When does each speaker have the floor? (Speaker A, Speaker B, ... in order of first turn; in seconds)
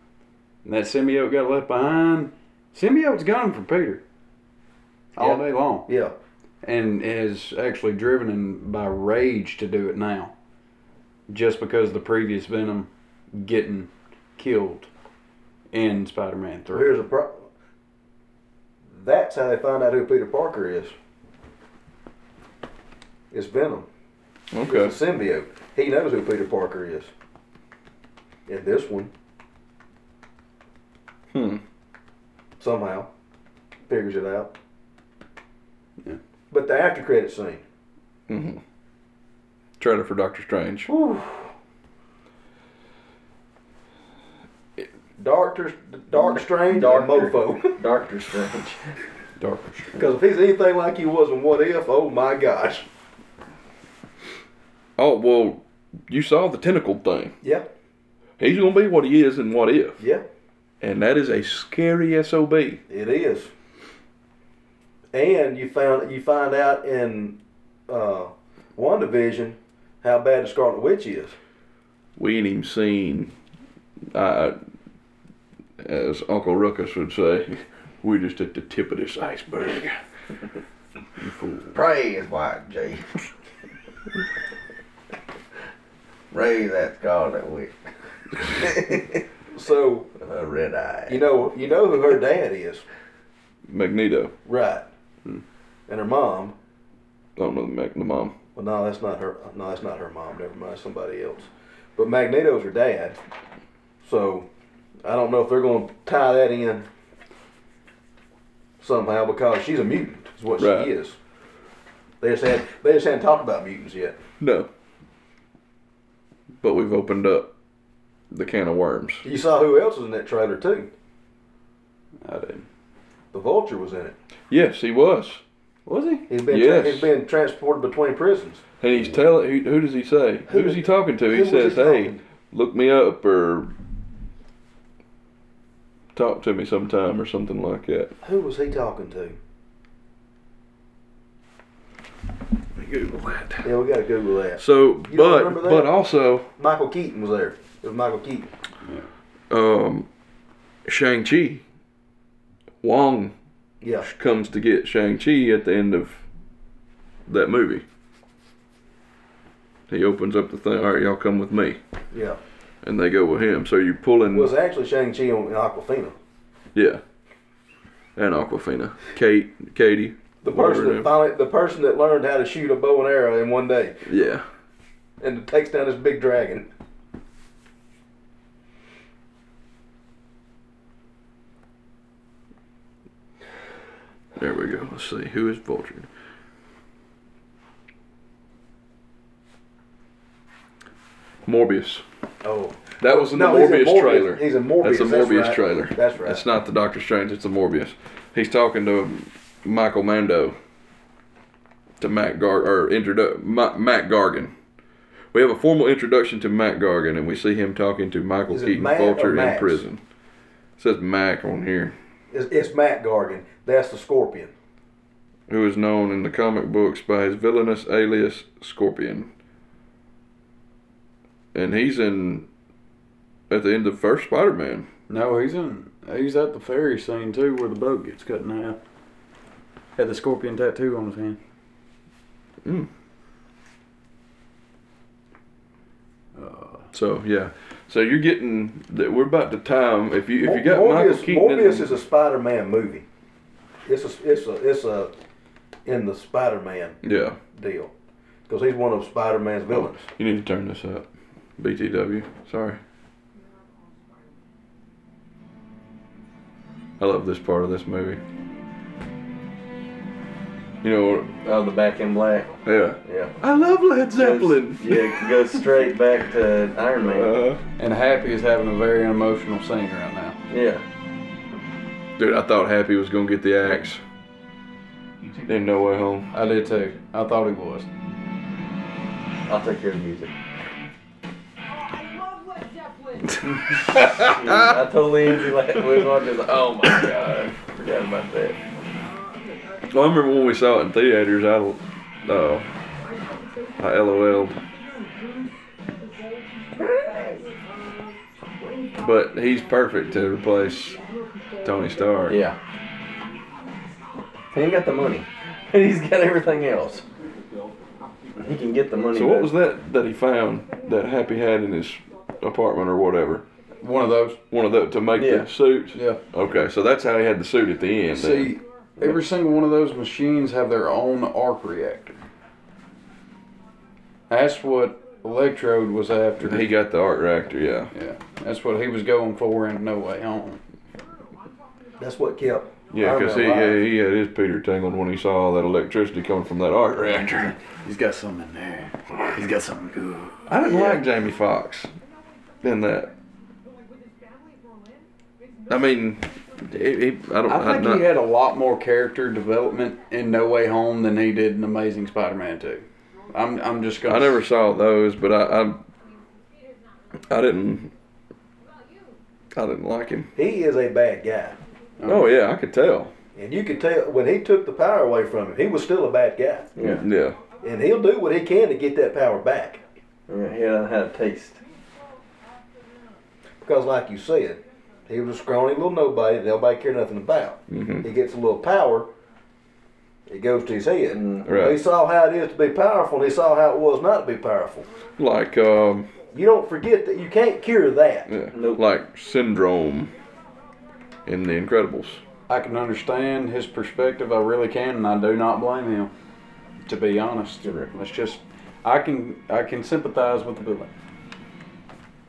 Speaker A: 0.6-4.0, 5.2-5.9, 6.6-10.3, 11.3-14.9, 15.7-16.9, 49.4-50.0, 81.2-81.7, 122.2-122.7, 125.8-126.2, 225.1-228.8, 229.9-231.4, 236.3-236.9, 267.8-270.4, 276.3-277.9, 313.8-314.4, 315.9-316.2, 318.1-322.2, 324.3-326.7, 327.9-330.6, 337.8-340.4, 347.4-354.5, 362.0-362.3, 392.5-396.1, 396.8-400.9
Speaker B: 5.2-6.1, 16.7-17.4, 18.9-20.9, 23.3-23.9, 24.6-27.1, 28.5-29.1, 32.6-33.1, 33.9-34.5, 36.5-37.6, 40.9-41.5, 45.2-47.8, 50.0-52.9, 62.9-63.5, 65.1-71.3, 89.5-90.1, 91.1-92.8, 94.5-94.9, 95.9-96.5, 98.5-103.2, 104.0-104.5, 105.0-106.8, 108.8-111.2, 112.2-114.2, 119.2-120.9, 123.3-124.2, 126.3-128.6, 130.5-132.2, 138.2-139.4, 143.6-145.9, 146.6-148.5, 162.1-162.4, 164.3-166.2, 170.4-174.0, 175.2-176.7, 192.4-196.4, 208.5-209.8, 212.3-214.5, 240.4-243.0, 243.8-245.1, 245.8-247.0, 247.5-247.9, 248.5-250.0, 332.0-333.8, 360.4-361.6, 363.3-366.8, 367.6-369.8, 373.6-379.1, 380.3-384.9, 386.3-388.3
Speaker C: 24.5-24.9, 31.3-31.6, 38.3-38.6, 39.8-40.9, 55.0-57.4, 58.4-60.0, 60.8-62.8, 72.2-73.3, 74.1-74.5, 75.8-80.0, 93.7-94.3, 97.3-98.3, 110.6-110.9, 114.4-114.7, 116.6-117.5, 118.3-119.2, 124.5-125.4, 126.5-127.1, 128.8-133.7, 136.1-138.1, 142.8-143.7, 144.6-146.5, 149.5-150.1, 150.9-151.6, 152.8-153.3, 154.0-156.2, 157.3-157.8, 159.9-161.8, 162.8-164.5, 166.7-167.0, 168.2-171.1, 174.1-174.4, 184.3-186.1, 191.4-192.0, 193.0-200.6, 202.0-204.5, 205.3-210.0, 210.8-211.9, 215.5-219.3, 221.5-222.5, 223.5-224.9, 232.6-232.9, 236.9-242.0, 247.0-247.4, 249.7-252.8, 257.0-258.2, 260.8-261.3, 262.6-265.7, 267.0-267.6, 272.2-274.0, 275.4-276.3, 283.8-284.8, 289.9-292.7, 293.8-294.6, 299.0-301.0, 301.6-302.4, 309.1-313.4, 314.5-318.6, 326.4-327.9, 332.9-337.6, 340.5-341.9, 342.6-343.1, 345.7-348.1, 354.1-355.9, 357.2-357.9, 359.5-360.3, 362.0-363.1, 366.8-367.4, 377.7-378.1, 381.4-381.8, 385.2-386.1, 388.3-390.1, 391.2-392.2
Speaker D: 46.2-48.8, 81.7-83.1, 86.3-87.8, 88.3-89.2, 90.2-91.2, 261.4-263.4, 264.1-267.4, 270.5-270.8, 279.5-280.3, 284.0-288.6, 296.8-297.4, 302.3-302.6, 304.5-307.0, 308.4-309.5, 315.1-315.5, 319.0-319.3, 340.6-341.0, 366.8-367.1, 370.3-371.6, 381.1-381.5, 388.5-388.8, 397.6-397.9
Speaker E: 253.3-254.5, 281.6-283.5, 288.7-290.9, 293.0-309.1, 310.1-315.0, 317.7-319.6, 324.5-325.9, 330.9-333.8, 334.9-337.6, 339.7-340.9, 341.9-347.7, 349.3-354.3, 355.9-358.0, 358.6-359.2, 360.0-360.4, 361.5-365.9, 366.6-369.8, 371.5-373.3, 374.5-375.8